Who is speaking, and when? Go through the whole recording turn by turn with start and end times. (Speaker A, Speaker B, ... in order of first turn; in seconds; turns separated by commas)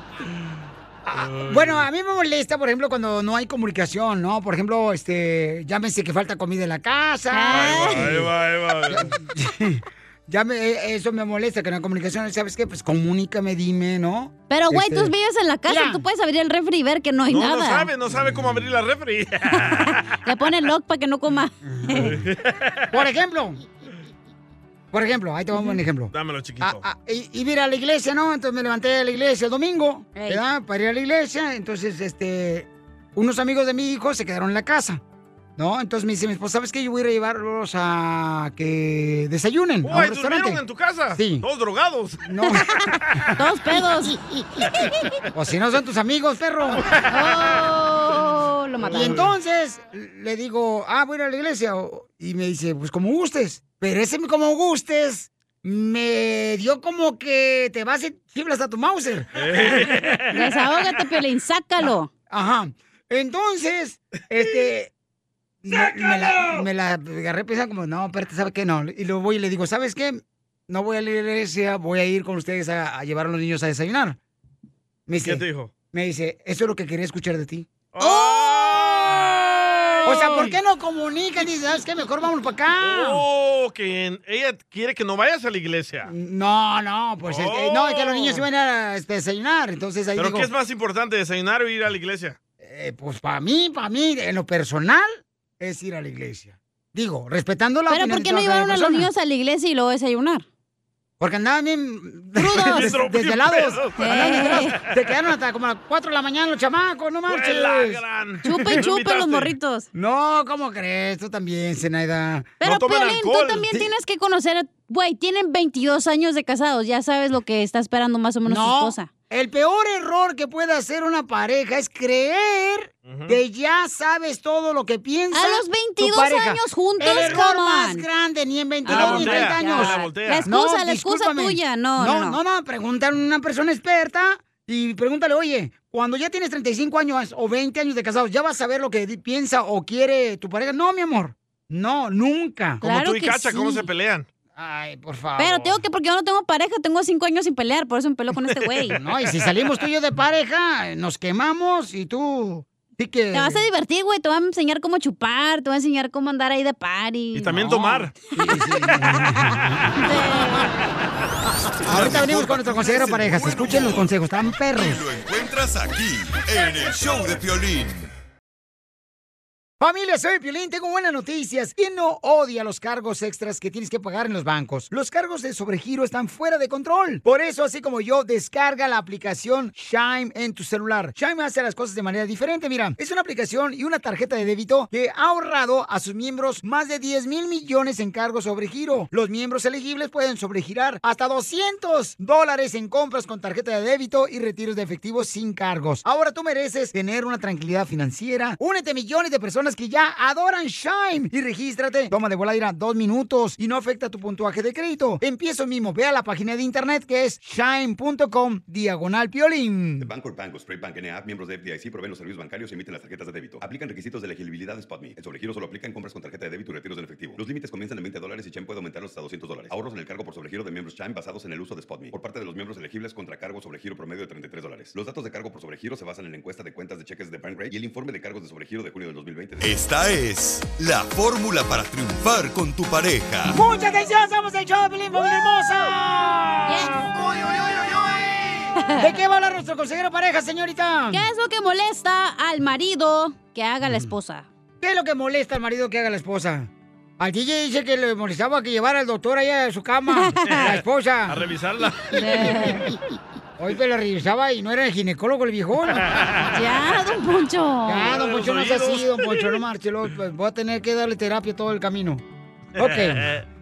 Speaker A: 1.1-8.3, Speaker B: 1.1-1.9, Speaker C: 7.3-8.1, Speaker B: 7.5-9.2, Speaker A: 8.9-15.1, Speaker C: 14.5-17.9, Speaker A: 15.7-16.0, Speaker B: 17.3-20.0, Speaker C: 19.6-22.1, Speaker A: 21.8-22.2, Speaker B: 22.0-22.9, Speaker A: 22.9-23.6, Speaker A: 24.9-35.0, Speaker B: 26.1-26.8, Speaker C: 30.1-30.4, Speaker A: 35.6-40.6, Speaker B: 39.8-42.2, Speaker A: 41.1-41.5, Speaker A: 42.2-42.7, Speaker C: 43.4-44.2, Speaker C: 44.8-45.1, Speaker A: 45.3-46.8, Speaker B: 46.8-47.1, Speaker C: 47.1-49.2, Speaker A: 48.9-59.4, Speaker B: 49.0-49.2, Speaker B: 59.4-60.4, Speaker C: 60.3-62.1, Speaker A: 61.8-64.9, Speaker A: 65.6-74.2, Speaker A: 75.1-77.7, Speaker B: 75.2-75.7, Speaker B: 77.9-80.5, Speaker C: 78.0-79.0, Speaker A: 80.0-83.2, Speaker B: 82.8-86.1, Speaker A: 86.1-90.5, Speaker B: 87.3-88.4, Speaker B: 90.2-92.4, Speaker A: 92.6-99.1, Speaker C: 97.9-100.5, Speaker A: 101.2-108.8, Speaker C: 102.4-102.9, Speaker B: 102.7-104.8, Speaker C: 104.0-104.8, Speaker B: 107.3-109.5, Speaker C: 108.5-109.9, Speaker A: 109.9-112.6, Speaker C: 112.6-119.1, Speaker B: 112.6-113.7, Speaker A: 118.5-142.8, Speaker B: 123.1-123.4, Speaker C: 125.3-128.1, Speaker C: 128.8-132.4, Speaker B: 128.9-130.5, Speaker C: 142.8-143.8, Speaker B: 142.8-144.3, Speaker A: 144.6-145.8, Speaker C: 145.4-149.0, Speaker A: 148.9-153.6, Speaker C: 153.3-157.7, Speaker B: 157.3-158.1, Speaker A: 157.5-159.9, Speaker C: 160.0-160.7, Speaker D: 161.9-164.1, Speaker A: 161.9-165.0, Speaker D: 164.7-168.1, Speaker A: 169.8-210.1, Speaker E: 210.0-229.7, Speaker D: 229.6-233.6, Speaker A: 233.5-237.1, Speaker C: 236.7-237.1, Speaker C: 238.8-239.1, Speaker A: 238.9-241.2, Speaker C: 241.1-244.5, Speaker A: 244.8-246.7, Speaker A: 247.2-251.4, Speaker C: 250.2-250.7, Speaker B: 251.3-252.2, Speaker C: 252.1-252.9, Speaker A: 252.1-252.9, Speaker A: 253.6-256.1, Speaker B: 256.0-256.5, Speaker C: 256.5-258.1, Speaker A: 257.9-262.2, Speaker B: 258.1-259.6, Speaker A: 262.8-263.3, Speaker B: 262.8-263.4